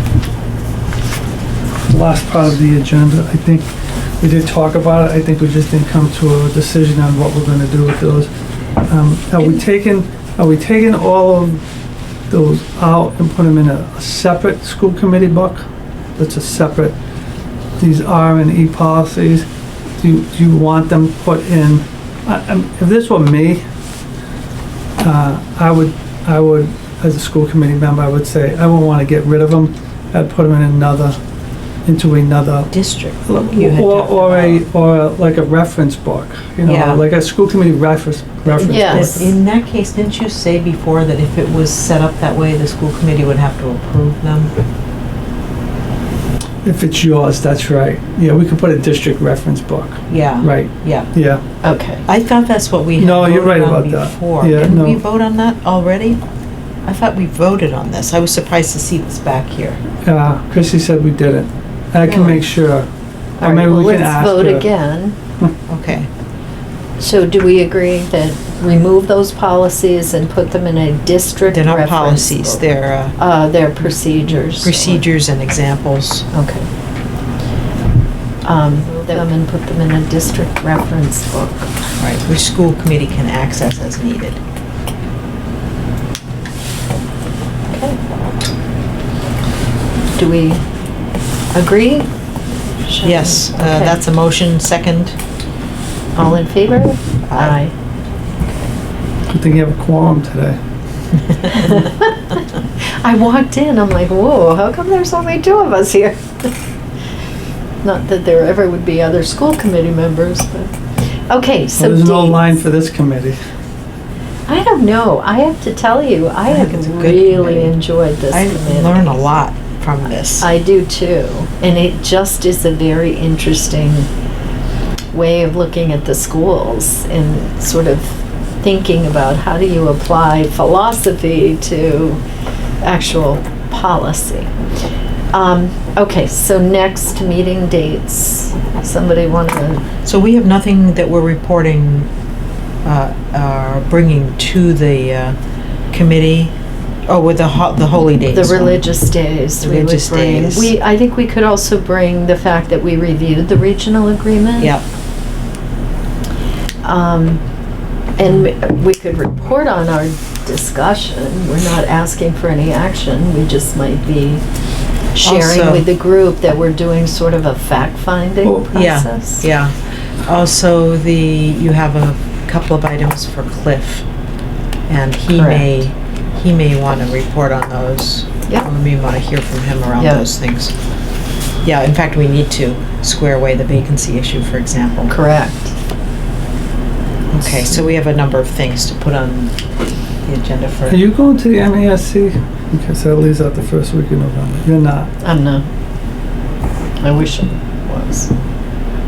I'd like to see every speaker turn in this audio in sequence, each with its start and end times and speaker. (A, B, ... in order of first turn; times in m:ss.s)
0:01.9-0:03.7 A
0:04.2-0:08.3 A
0:08.9-0:11.6 A
0:12.3-0:17.0 A
0:17.8-0:19.5 A
0:20.0-0:23.6 A
0:25.0-0:31.2 A
0:31.9-0:32.7 A
0:32.7-0:34.6 B
0:33.3-0:39.4 A
0:36.6-0:37.0 B
0:38.5-0:44.5 B
0:38.6-0:39.1 C
0:46.6-0:51.4 A
0:50.1-0:51.1 B
0:51.6-0:52.0 C
0:52.1-0:56.2 B
0:53.0-0:55.0 A
0:56.8-0:59.8 B
1:00.0-1:02.9 A
1:02.0-1:02.4 B
1:03.4-1:05.2 C
1:03.4-1:04.7 A
1:05.7-1:06.1 B
1:07.0-1:15.1 C
1:11.5-1:13.2 B
1:14.2-1:16.3 B
1:16.3-1:16.7 C
1:18.4-1:21.7 C
1:22.0-1:24.4 B
1:27.7-1:28.0 C
1:30.2-1:30.6 C
1:31.5-1:32.1 C
1:32.8-1:34.0 C
1:33.0-1:35.2 B
1:36.2-1:37.7 C
1:37.3-1:37.6 B
1:39.3-1:40.6 A
1:41.4-1:42.4 C
1:43.0-1:46.5 C
1:47.8-1:50.7 C
1:51.3-1:52.6 C
1:51.8-1:53.4 A
1:54.5-1:59.4 C
1:56.5-1:57.8 B
1:58.3-2:00.5 B
2:00.4-2:04.1 C
2:05.1-2:12.2 C
2:12.8-2:14.5 C
2:15.3-2:19.8 C
2:20.0-2:22.1 B
2:22.8-2:25.4 B
2:25.9-2:26.5 B
2:27.1-2:28.8 B
2:28.3-2:34.8 C
2:29.6-2:30.7 B
2:34.6-2:34.8 B
2:36.8-2:37.4 C
2:38.2-2:44.4 C
2:45.2-2:49.5 C
2:45.2-2:45.9 B
2:48.7-2:54.0 B
2:54.9-3:00.7 B
2:55.3-2:55.9 C
3:00.0-3:00.3 C
3:01.6-3:05.2 B
3:05.1-3:05.8 C
3:07.3-3:07.7 A
3:07.4-3:09.5 B
3:10.2-3:11.0 B
3:10.9-3:15.1 A
3:15.2-3:15.6 C
3:17.0-3:18.3 C